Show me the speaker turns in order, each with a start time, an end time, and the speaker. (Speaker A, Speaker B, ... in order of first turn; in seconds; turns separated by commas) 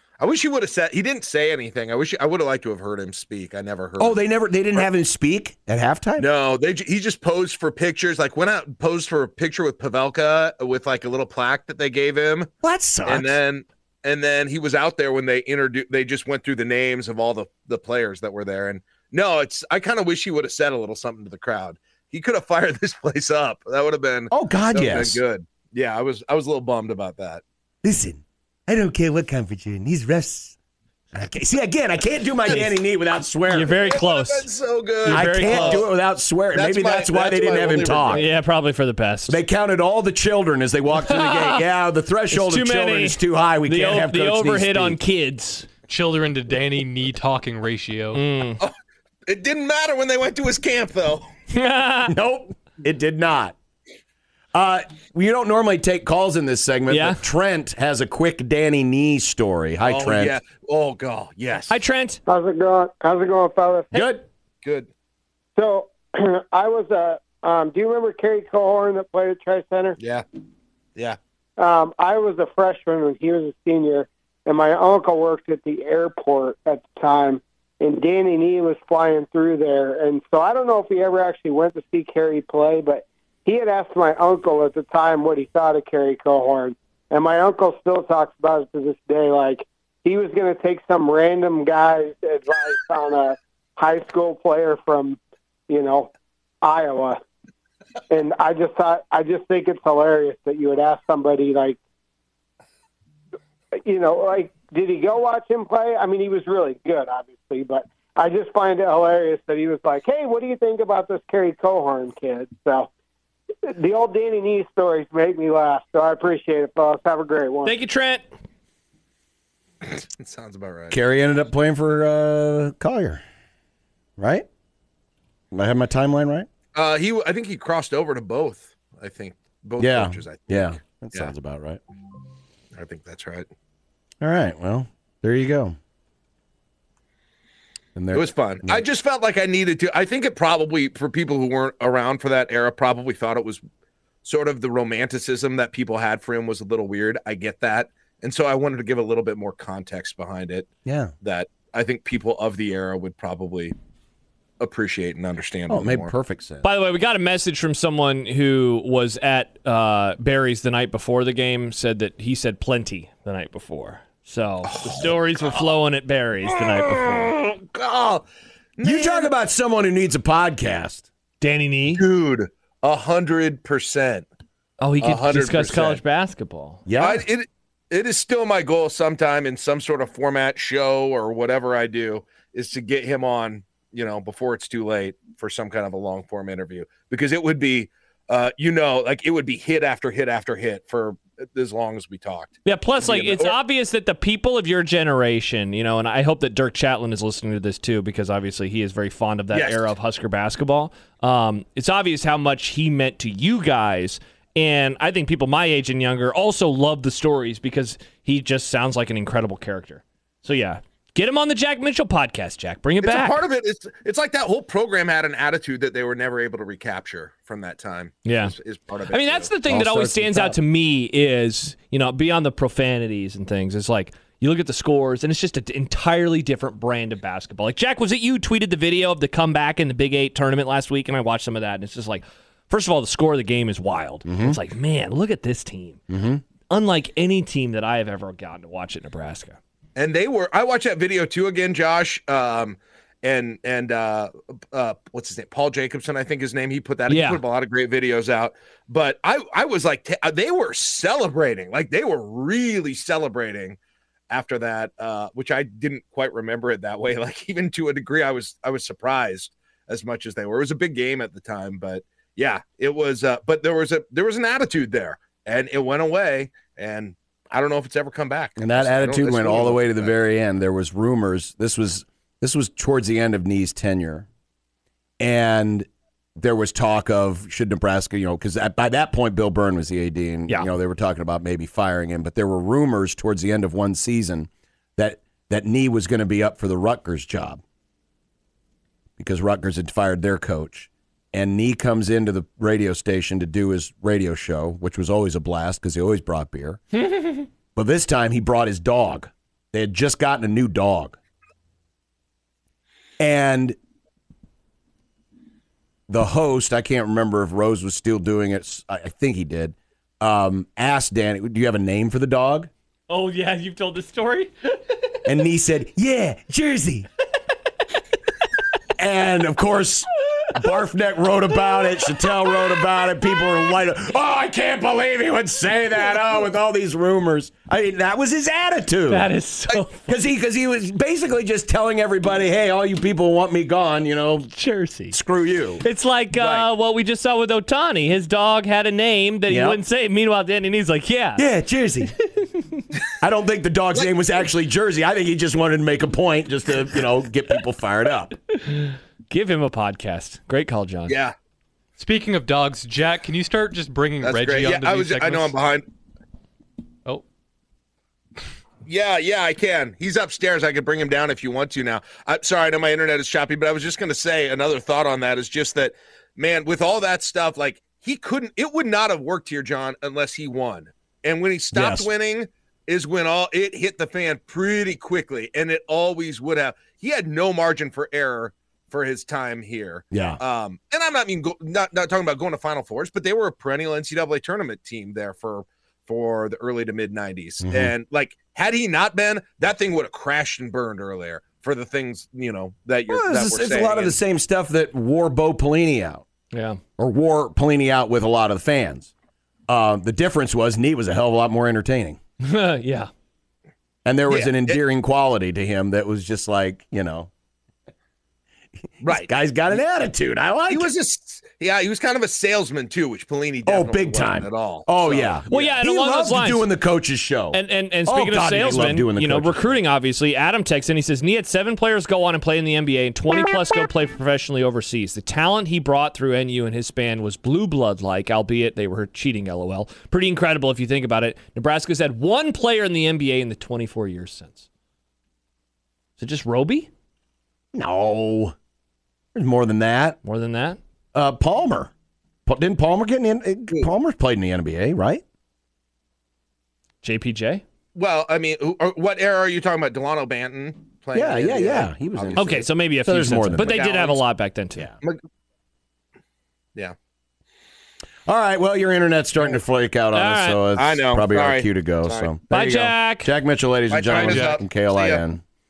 Speaker A: 0.2-4.2, Speaker B: 4.0-6.3, Speaker A: 6.2-12.5, Speaker B: 12.6-13.4, Speaker A: 13.1-27.4, Speaker B: 24.3-25.2, Speaker B: 27.8-30.6, Speaker B: 31.1-33.8, Speaker C: 33.5-34.5, Speaker A: 33.8-35.9, Speaker C: 35.0-35.8, Speaker B: 35.1-38.2, Speaker A: 36.5-38.3, Speaker C: 38.1-39.4, Speaker B: 39.3-45.0, Speaker C: 41.1-41.6, Speaker C: 42.3-45.7, Speaker D: 45.9-48.2, Speaker C: 48.1-48.6, Speaker A: 49.3-51.3, Speaker C: 51.5-52.1, Speaker B: 52.1-53.6, Speaker B: 54.5-60.4, Speaker C: 56.9-57.2, Speaker A: 59.8-61.8, Speaker C: 61.7-62.2, Speaker E: 62.3-64.1, Speaker B: 63.9-64.2, Speaker A: 64.6-64.9, Speaker E: 65.6-70.0, Speaker E: 71.6-97.2, Speaker E: 98.1-101.8, Speaker E: 103.8-112.9, Speaker E: 113.7-117.8, Speaker C: 117.7-118.2, Speaker A: 119.8-121.0, Speaker B: 120.9-123.2, Speaker B: 124.2-124.5, Speaker B: 125.5-126.5, Speaker A: 126.7-131.3, Speaker B: 129.8-131.8, Speaker A: 132.8-133.5, Speaker B: 134.2-135.8, Speaker B: 137.9-138.8, Speaker A: 138.1-143.6, Speaker A: 144.2-150.7, Speaker B: 150.9-151.1, Speaker A: 151.2-153.7, Speaker A: 154.6-156.1, Speaker B: 155.7-156.7, Speaker C: 156.6-167.3, Speaker A: 164.7-165.7, Speaker A: 166.5-168.2, Speaker A: 168.8-169.3, Speaker B: 168.8-171.1, Speaker C: 171.4-172.0, Speaker A: 172.0-174.3, Speaker C: 174.8-176.8, Speaker A: 175.0-176.0, Speaker B: 176.9-177.2, Speaker A: 177.0-193.6, Speaker C: 192.7-213.4, Speaker A: 199.5-199.9, Speaker A: 213.0-219.5, Speaker C: 218.2-218.5, Speaker C: 219.1-236.0, Speaker B: 219.7-220.6, Speaker B: 234.3-234.6, Speaker B: 236.1-236.4, Speaker C: 236.7-239.6, Speaker A: 240.0-253.8, Speaker C: 247.1-247.4, Speaker A: 254.3-270.1, Speaker B: 268.6-274.3, Speaker B: 275.2-287.6, Speaker B: 289.2-297.0, Speaker B: 297.8-301.2, Speaker B: 303.2-303.8, Speaker B: 306.1-312.7, Speaker C: 313.1-315.0, Speaker B: 315.2-317.1, Speaker B: 319.0-329.3, Speaker C: 329.1-330.1, Speaker B: 330.0-334.5, Speaker C: 334.5-335.2, Speaker B: 335.1-335.8, Speaker C: 335.8-341.4, Speaker A: 336.4-336.7, Speaker B: 339.5-339.8, Speaker B: 341.4-342.1, Speaker C: 342.2-342.9, Speaker B: 343.2-348.4, Speaker C: 348.5-351.2, Speaker A: 351.1-351.3, Speaker D: 352.0-355.5, Speaker A: 354.2-355.8, Speaker A: 358.9-394.2, Speaker B: 371.7-372.1, Speaker B: 380.1-380.4, Speaker B: 387.6-387.9, Speaker B: 393.1-396.2, Speaker C: 396.5-396.8, Speaker B: 397.0-399.1, Speaker B: 399.7-402.2, Speaker C: 402.4-403.1, Speaker B: 404.1-407.3, Speaker A: 404.3-404.8, Speaker B: 409.0-410.9, Speaker A: 409.0-409.3, Speaker A: 410.7-415.8, Speaker B: 413.7-419.8, Speaker C: 415.5-416.7, Speaker C: 417.5-434.7, Speaker C: 436.2-436.9, Speaker B: 437.7-438.6, Speaker B: 439.4-440.2, Speaker C: 440.2-440.8, Speaker B: 441.1-441.9, Speaker B: 442.5-445.2, Speaker C: 447.0-447.6, Speaker A: 447.9-452.6, Speaker B: 451.1-453.8, Speaker C: 452.4-454.9, Speaker A: 453.6-454.2, Speaker B: 458.3-465.4, Speaker C: 460.1-460.6, Speaker A: 460.8-462.3, Speaker C: 462.5-463.3, Speaker A: 463.9-465.2, Speaker D: 464.1-464.6